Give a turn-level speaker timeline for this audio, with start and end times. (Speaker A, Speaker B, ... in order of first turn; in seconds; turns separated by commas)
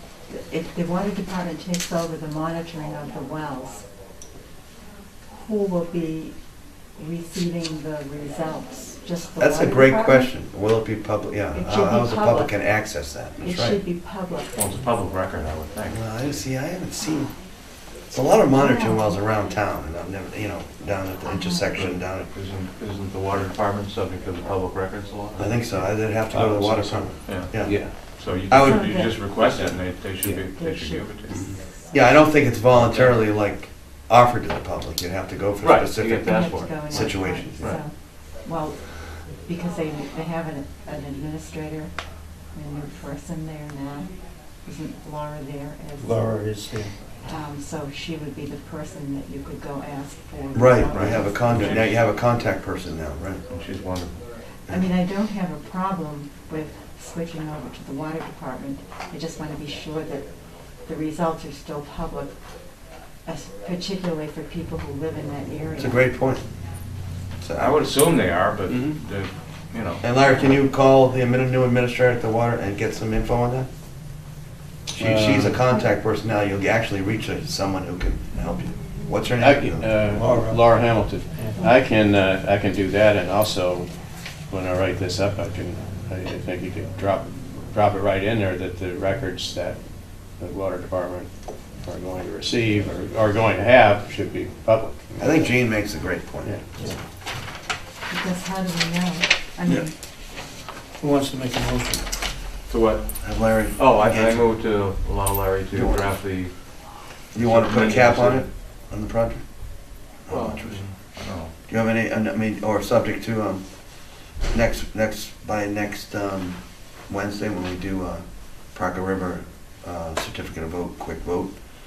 Speaker A: 0.3-3.9, Speaker A: 5.4-6.3, Speaker A: 7.0-10.3, Speaker B: 9.4-13.8, Speaker A: 11.5-12.6, Speaker A: 13.4-14.5, Speaker C: 14.5-16.0, Speaker B: 15.9-17.3, Speaker B: 18.1-22.3, Speaker A: 18.5-19.2, Speaker A: 21.2-21.6, Speaker C: 21.7-25.8, Speaker B: 25.4-27.8, Speaker D: 26.3-27.9, Speaker C: 27.2-31.4, Speaker B: 28.5-28.9, Speaker A: 28.6-29.1, Speaker A: 30.6-32.0, Speaker B: 31.9-37.8, Speaker C: 32.7-33.2, Speaker C: 35.6-37.8, Speaker A: 36.2-42.0, Speaker A: 42.5-46.4, Speaker E: 46.0-47.0, Speaker A: 47.2-51.9, Speaker B: 50.5-53.4, Speaker C: 50.9-52.0, Speaker C: 53.5-54.2, Speaker A: 54.6-62.4, Speaker A: 63.2-66.0, Speaker B: 65.8-66.5, Speaker B: 67.4-67.9, Speaker C: 67.6-70.0, Speaker D: 68.7-68.9, Speaker B: 70.0-73.7, Speaker B: 74.9-79.9, Speaker D: 75.0-75.5, Speaker D: 79.4-83.9, Speaker E: 80.1-80.6, Speaker E: 81.3-81.6, Speaker D: 84.5-89.8, Speaker D: 90.4-91.3, Speaker D: 91.8-95.5, Speaker B: 95.2-96.5, Speaker D: 96.4-96.7, Speaker A: 98.1-99.9, Speaker E: 101.0-102.0, Speaker C: 102.7-103.0, Speaker B: 103.2-104.4, Speaker C: 103.7-106.5, Speaker B: 105.7-106.0, Speaker B: 107.3-109.4, Speaker C: 107.3-108.5, Speaker B: 110.2-110.8, Speaker C: 110.3-111.5, Speaker B: 111.7-113.6, Speaker B: 114.5-121.6